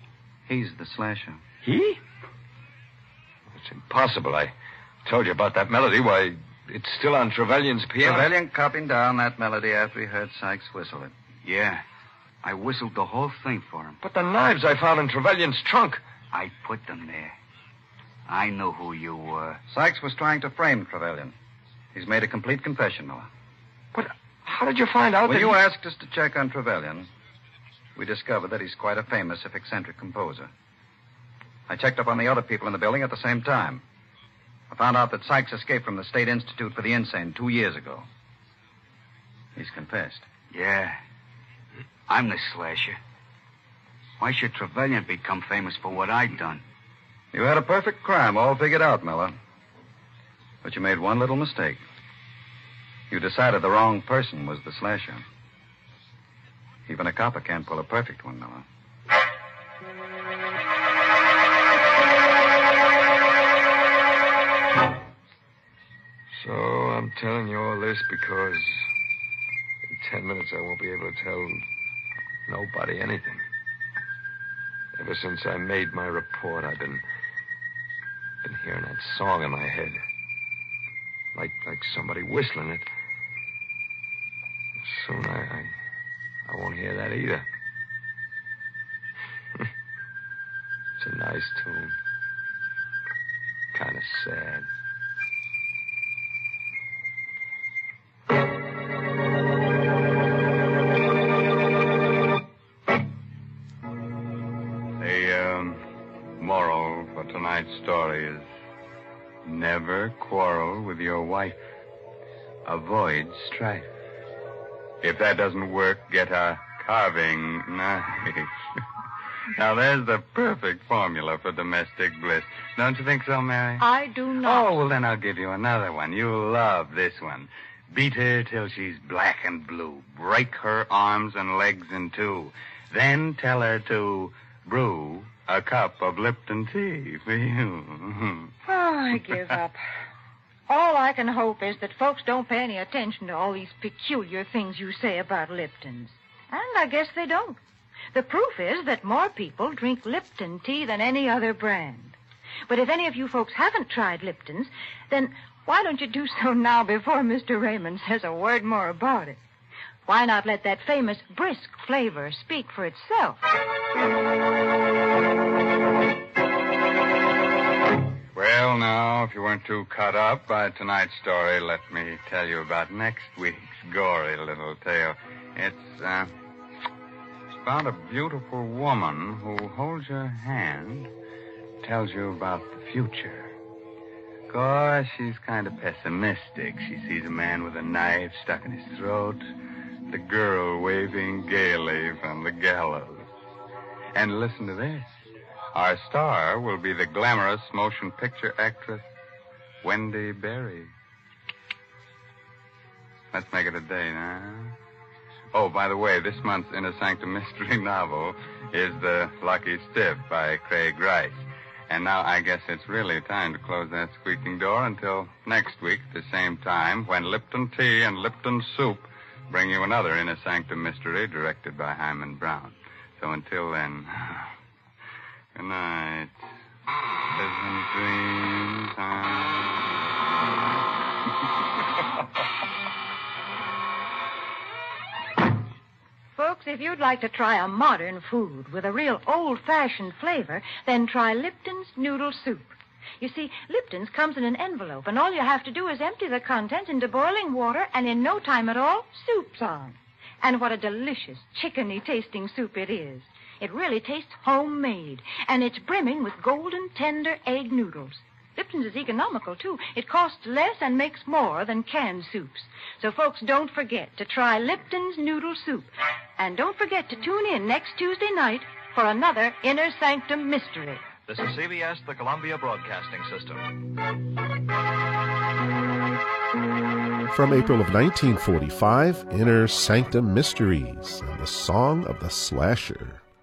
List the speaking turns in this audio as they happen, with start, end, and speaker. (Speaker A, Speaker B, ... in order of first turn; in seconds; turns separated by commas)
Speaker A: 0.5-1.4, Speaker B: 1.6-2.0, Speaker B: 3.5-4.5, Speaker B: 5.0-8.3, Speaker A: 8.0-11.1, Speaker C: 11.4-11.8, Speaker C: 12.4-14.0, Speaker B: 14.0-16.0, Speaker C: 16.3-17.4, Speaker C: 18.3-19.6, Speaker A: 19.7-21.4, Speaker A: 21.9-23.3, Speaker B: 23.9-25.6, Speaker A: 25.2-27.1, Speaker A: 28.0-30.5, Speaker A: 31.7-33.8, Speaker A: 34.7-38.1, Speaker A: 39.6-40.3, Speaker C: 40.5-41.0, Speaker C: 42.1-43.0, Speaker C: 44.2-46.6, Speaker A: 47.3-49.4, Speaker A: 50.6-51.8, Speaker A: 53.1-55.2, Speaker A: 56.9-58.6, Speaker B: 66.3-68.9, Speaker B: 69.9-71.6, Speaker B: 72.5-73.4, Speaker B: 75.0-77.0, Speaker B: 78.4-80.0, Speaker B: 81.3-82.9, Speaker B: 84.8-85.8, Speaker B: 86.5-87.5, Speaker B: 91.0-92.0, Speaker B: 93.7-94.7, Speaker D: 105.0-105.8, Speaker D: 106.4-108.5, Speaker D: 109.4-111.6, Speaker D: 112.7-113.9, Speaker D: 115.0-118.5, Speaker D: 119.6-123.9, Speaker E: 123.8-124.8, Speaker D: 124.4-138.5, Speaker E: 138.7-139.8, Speaker E: 140.7-147.6, Speaker E: 148.1-152.2, Speaker E: 152.7-159.4, Speaker E: 160.1-163.4, Speaker D: 168.3-176.3, Speaker D: 177.6-181.1, Speaker D: 181.8-183.5, Speaker D: 184.5-189.4, Speaker D: 190.1-193.3, Speaker D: 194.2-195.2, Speaker D: 195.7-199.0, Speaker D: 199.8-200.9, Speaker D: 203.3-204.8, Speaker D: 205.5-224.5, Speaker D: 225.6-226.4, Speaker D: 227.3-229.8, Speaker E: 236.4-271.0, Speaker F: 271.2-273.7, Speaker G: 277.3-283.2